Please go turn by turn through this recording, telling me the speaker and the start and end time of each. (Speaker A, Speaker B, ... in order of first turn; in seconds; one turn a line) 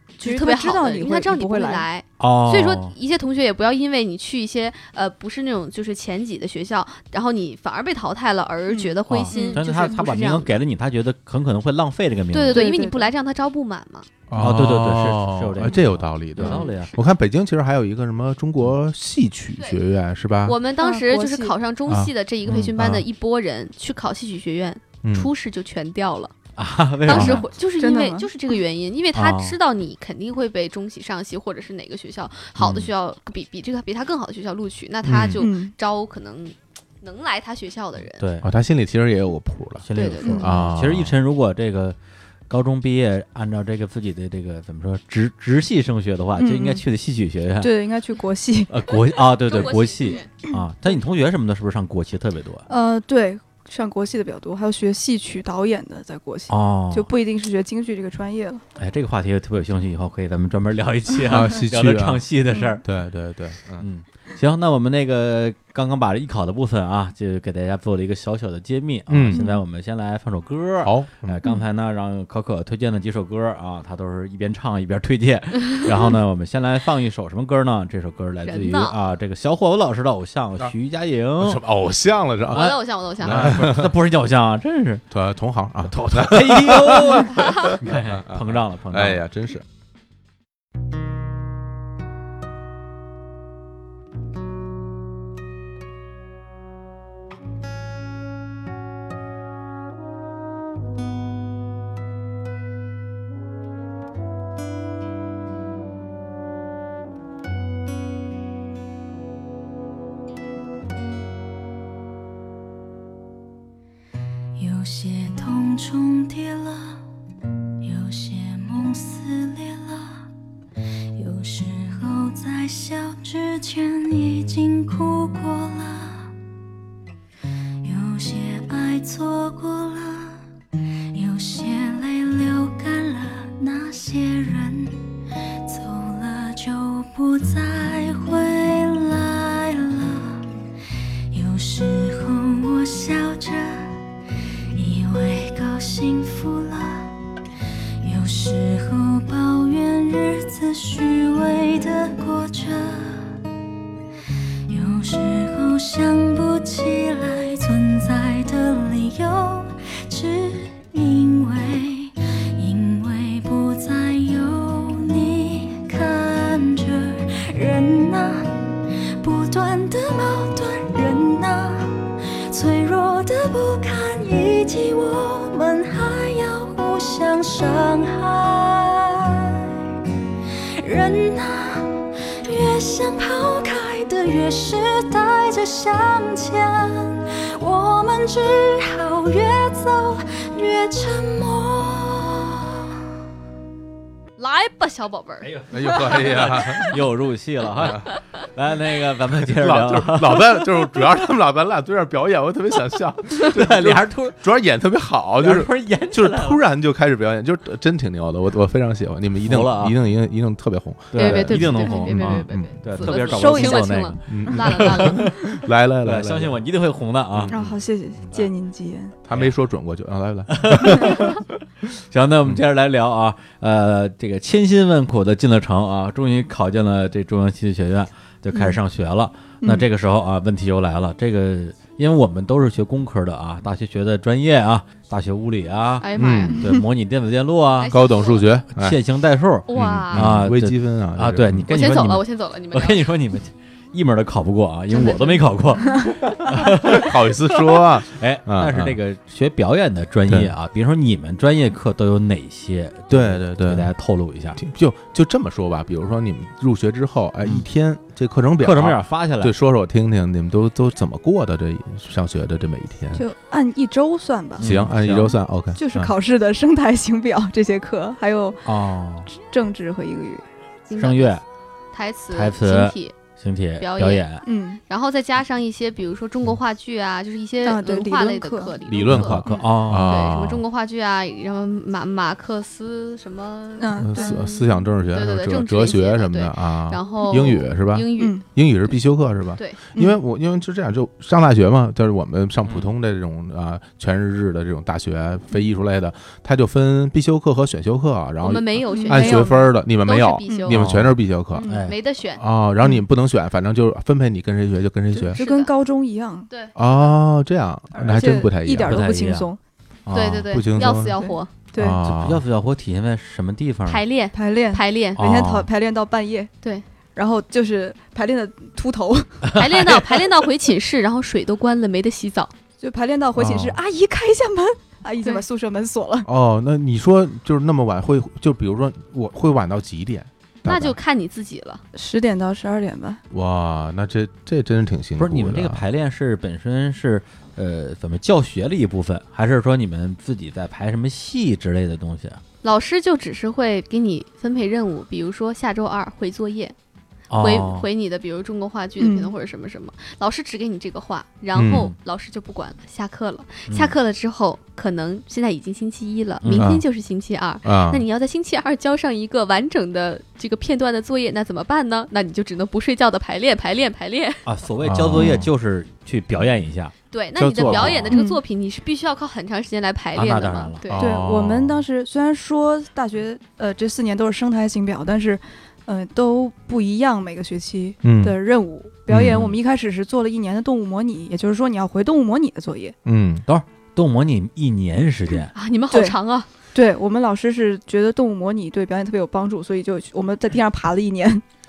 Speaker A: 0.2-10.6
Speaker B: 0.2-1.9
Speaker C: 2.2-2.9
Speaker B: 8.7-10.1
Speaker C: 9.1-12.7
Speaker A: 12.3-14.1
Speaker B: 12.5-13.1
Speaker D: 14.3-20.6
Speaker C: 14.3-16.9
Speaker A: 16.4-17.0
Speaker A: 20.4-26.3
Speaker B: 20.8-21.6
Speaker D: 21.9-23.1
Speaker C: 22.5-22.7
Speaker D: 25.0-25.3
Speaker C: 26.6-27.4
Speaker A: 27.0-38.2
Speaker B: 27.1-28.6
Speaker C: 29.1-29.6
Speaker C: 32.6-32.9
Speaker D: 35.0-35.4
Speaker B: 35.4-35.7
Speaker C: 38.2-38.5
Speaker D: 38.4-39.8
Speaker C: 39.8-42.0
Speaker A: 39.9-40.5
Speaker B: 40.2-40.5
Speaker D: 40.4-41.2
Speaker C: 42.5-47.7
Speaker B: 46.4-46.9
Speaker B: 47.6-48.7
Speaker C: 48.7-52.7
Speaker A: 49.2-50.3
Speaker B: 52.7-58.6
Speaker C: 56.5-57.1
Speaker C: 58.8-62.8
Speaker D: 61.3-62.3
Speaker B: 62.5-62.8
Speaker D: 62.8-63.9
Speaker C: 63.8-81.6
Speaker D: 69.1-69.4
Speaker B: 69.3-69.6
Speaker D: 70.8-71.4
Speaker A: 78.5-79.0
Speaker D: 81.4-83.9
Speaker A: 82.5-83.5
Speaker C: 82.5-85.0
Speaker D: 85.1-89.7
Speaker C: 85.9-89.2
Speaker A: 87.4-87.7
Speaker E: 114.6-117.0
Speaker E: 117.8-120.2
Speaker E: 121.1-126.3
Speaker E: 127.8-130.4
Speaker E: 131.1-135.0
Speaker E: 135.7-140.5
Speaker E: 141.3-144.0
Speaker E: 144.7-147.1
Speaker E: 148.0-153.3
Speaker E: 154.7-168.6
Speaker E: 169.2-179.6
Speaker E: 180.8-192.6
Speaker A: 194.4-196.2
Speaker C: 195.4-201.0
Speaker D: 195.7-197.0
Speaker D: 197.8-198.1
Speaker D: 199.4-212.7
Speaker C: 203.4-204.4
Speaker C: 205.4-206.6
Speaker C: 209.4-210.0
Speaker C: 211.1-215.4
Speaker A: 211.2-215.4
Speaker B: 213.0-213.9
Speaker D: 214.3-216.6
Speaker C: 216.0-217.6
Speaker D: 217.3-217.8
Speaker B: 217.5-219.2
Speaker D: 219.2-221.4
Speaker C: 220.5-221.5
Speaker C: 222.1-236.1
Speaker B: 228.5-228.8
Speaker B: 229.6-229.9
Speaker A: 236.0-236.6
Speaker D: 236.2-236.6
Speaker C: 236.6-238.0
Speaker A: 237.8-238.6
Speaker D: 237.9-239.0
Speaker C: 238.7-247.1
Speaker A: 239.7-240.3
Speaker D: 239.7-241.7
Speaker A: 241.7-243.1
Speaker A: 244.9-246.1
Speaker D: 246.4-249.0
Speaker C: 247.7-254.6
Speaker D: 250.3-250.5
Speaker D: 253.1-253.9
Speaker D: 254.6-263.3
Speaker C: 258.6-259.5
Speaker B: 263.1-264.7
Speaker C: 264.6-265.4
Speaker D: 264.6-266.1
Speaker B: 265.8-268.7
Speaker C: 268.6-269.3
Speaker B: 269.3-270.4
Speaker A: 270.9-271.3
Speaker C: 271.0-271.4
Speaker A: 271.9-273.1
Speaker C: 272.3-274.4
Speaker A: 273.8-279.5
Speaker B: 274.4-274.8
Speaker B: 277.6-278.7
Speaker D: 278.9-280.6
Speaker C: 279.2-280.2
Speaker A: 280.1-288.9
Speaker B: 283.8-284.4
Speaker D: 284.0-301.7
Speaker B: 287.2-287.6
Speaker B: 288.2-288.4
Speaker A: 298.4-300.8
Speaker B: 298.9-299.7
Speaker B: 300.5-300.8
Speaker C: 300.8-301.2
Speaker A: 301.5-302.4
Speaker C: 301.7-302.0
Speaker D: 302.4-305.4
Speaker B: 305.1-306.5
Speaker A: 305.4-305.7
Speaker A: 306.5-306.7
Speaker D: 306.8-309.1
Speaker B: 307.9-309.6
Speaker C: 308.9-309.5
Speaker D: 310.1-311.2
Speaker A: 310.1-311.5
Speaker B: 310.8-312.0
Speaker D: 311.7-312.4
Speaker C: 312.0-314.0
Speaker A: 313.9-315.2
Speaker B: 314.3-316.5
Speaker C: 315.2-315.7
Speaker B: 317.1-319.4
Speaker C: 319.4-320.2
Speaker A: 319.6-322.5
Speaker B: 322.8-326.3
Speaker C: 323.4-323.7
Speaker D: 326.2-331.0
Speaker A: 330.6-331.8
Speaker B: 331.9-333.2
Speaker D: 333.3-335.8
Speaker C: 335.2-342.4
Speaker A: 342.6-346.8
Speaker C: 347.3-347.9
Speaker A: 347.4-364.4
Speaker B: 349.0-349.3
Speaker D: 351.6-351.9
Speaker C: 353.7-353.9
Speaker C: 356.4-356.7
Speaker D: 356.6-356.8
Speaker D: 357.6-358.0
Speaker C: 364.4-366.9
Speaker D: 364.8-365.5
Speaker A: 367.1-371.1
Speaker D: 367.4-368.2
Speaker C: 367.7-368.0
Speaker B: 368.1-368.4
Speaker C: 370.1-370.8
Speaker D: 370.9-371.8
Speaker B: 371.0-383.0
Speaker D: 378.0-378.4
Speaker D: 379.1-379.5
Speaker C: 379.2-379.6
Speaker D: 383.1-383.4
Speaker C: 383.5-385.5
Speaker A: 385.5-386.5
Speaker B: 385.9-386.2
Speaker B: 386.7-391.4